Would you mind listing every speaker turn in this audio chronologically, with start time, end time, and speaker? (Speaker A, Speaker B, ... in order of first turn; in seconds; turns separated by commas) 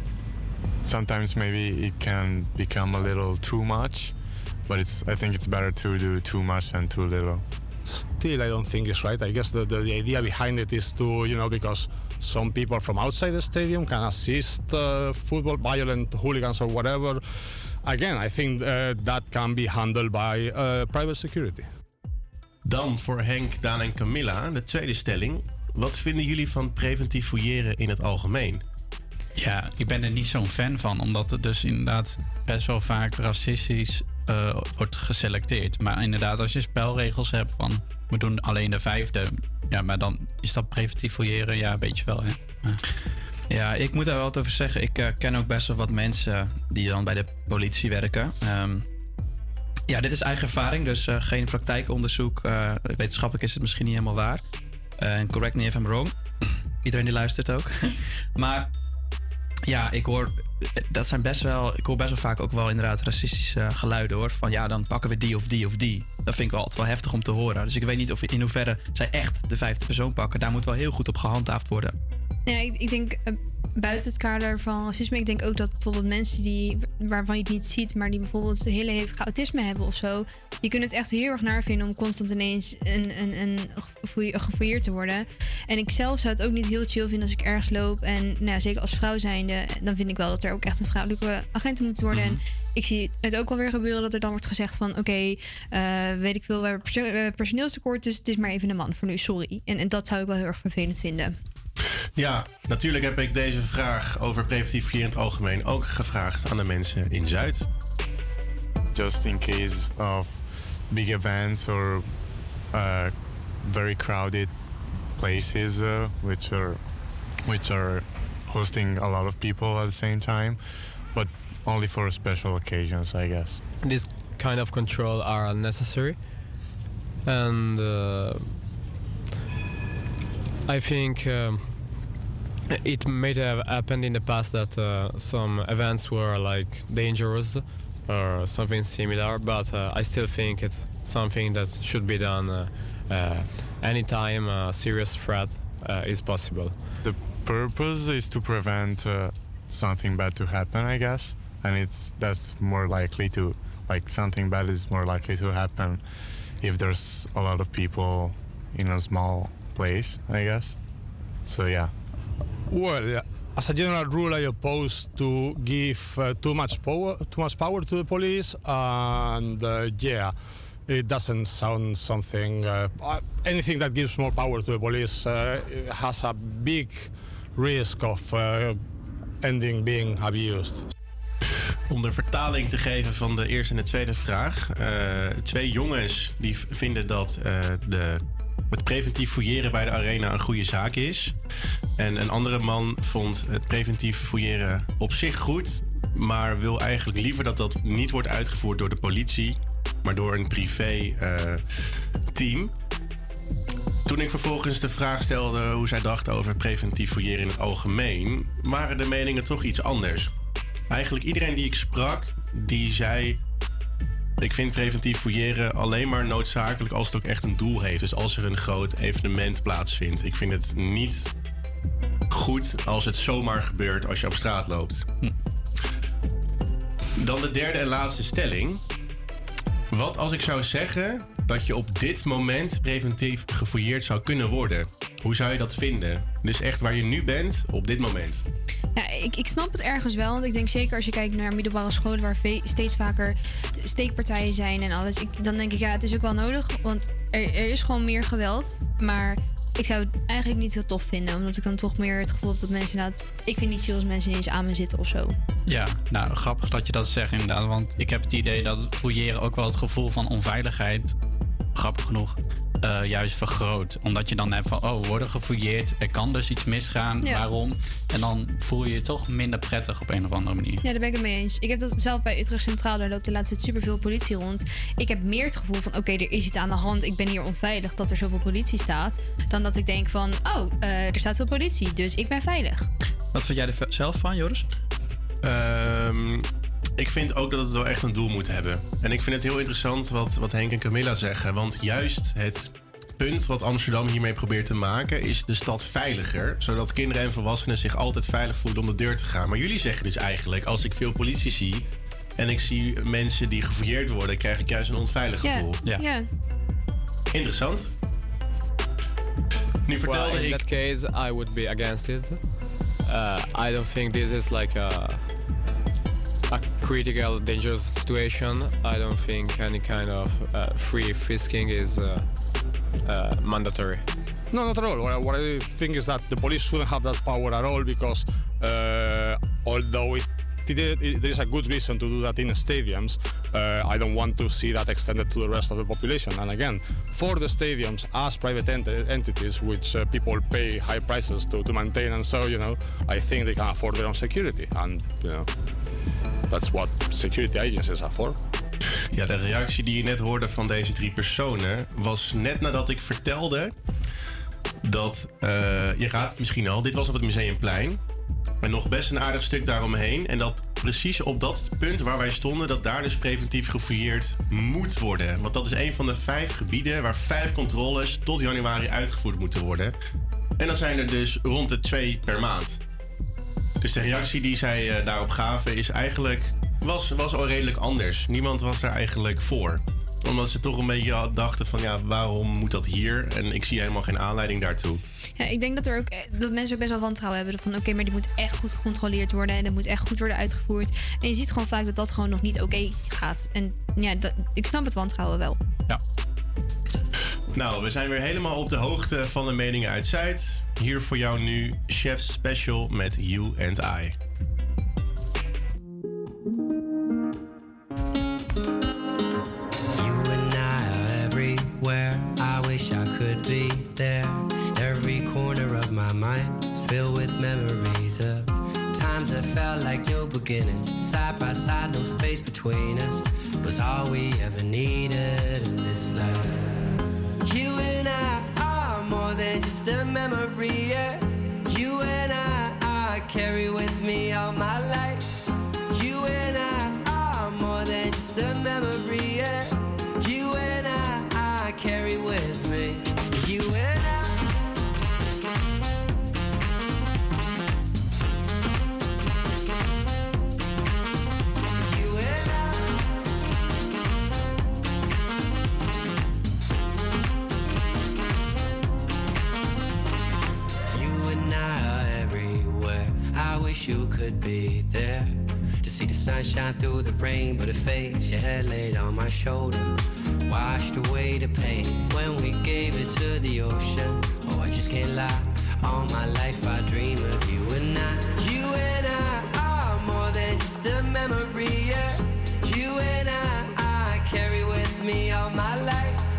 Speaker A: 0.8-4.1, Speaker A: 4.7-7.4, Speaker B: 7.8-21.7, Speaker C: 22.6-28.6, Speaker D: 29.3-42.8, Speaker E: 43.5-48.9, Speaker E: 49.9-54.4, Speaker E: 55.0-56.1, Speaker E: 56.8-58.7, Speaker E: 59.6-71.9, Speaker F: 72.5-101.4, Speaker C: 102.2-107.7, Speaker A: 108.9-112.1, Speaker A: 112.7-114.5, Speaker A: 115.2-116.8, Speaker A: 117.4-123.6, Speaker G: 123.8-126.3, Speaker G: 127.2-128.6, Speaker G: 130.7-131.9, Speaker G: 132.7-146.8, Speaker A: 147.0-156.0, Speaker A: 156.6-160.8, Speaker A: 161.4-161.9, Speaker B: 162.7-178.8, Speaker B: 179.4-180.9, Speaker C: 181.9-191.3, Speaker C: 192.0-201.6, Speaker C: 202.3-202.7, Speaker C: 204.1-210.3, Speaker C: 210.9-213.4, Speaker C: 214.4-221.3, Speaker C: 222.3-225.1, Speaker C: 227.2-228.8, Speaker C: 229.9-238.4, Speaker F: 238.9-255.4, Speaker D: 255.7-261.2, Speaker D: 261.7-270.8, Speaker F: 270.8-282.9, Speaker E: 283.3-284.7, Speaker C: 285.4-305.8, Speaker F: 305.4-306.3, Speaker C: 307.3-307.9, Speaker C: 309.9-310.6, Speaker G: 310.0-315.3, Speaker G: 316.5-322.4, Speaker G: 323.0-324.1, Speaker B: 324.5-345.5, Speaker B: 346.5-348.4, Speaker C: 349.1-353.7, Speaker C: 354.8-358.0, Speaker C: 358.6-369.9, Speaker C: 370.6-372.8, Speaker C: 373.8-385.0, Speaker F: 385.4-395.6, Speaker C: 397.5-404.1, Speaker H: 410.0-426.6, Speaker H: 427.4-435.3, Speaker H: 435.9-444.4, Speaker H: 451.8-453.0, Speaker H: 460.9-470.0, Speaker H: 470.5-486.2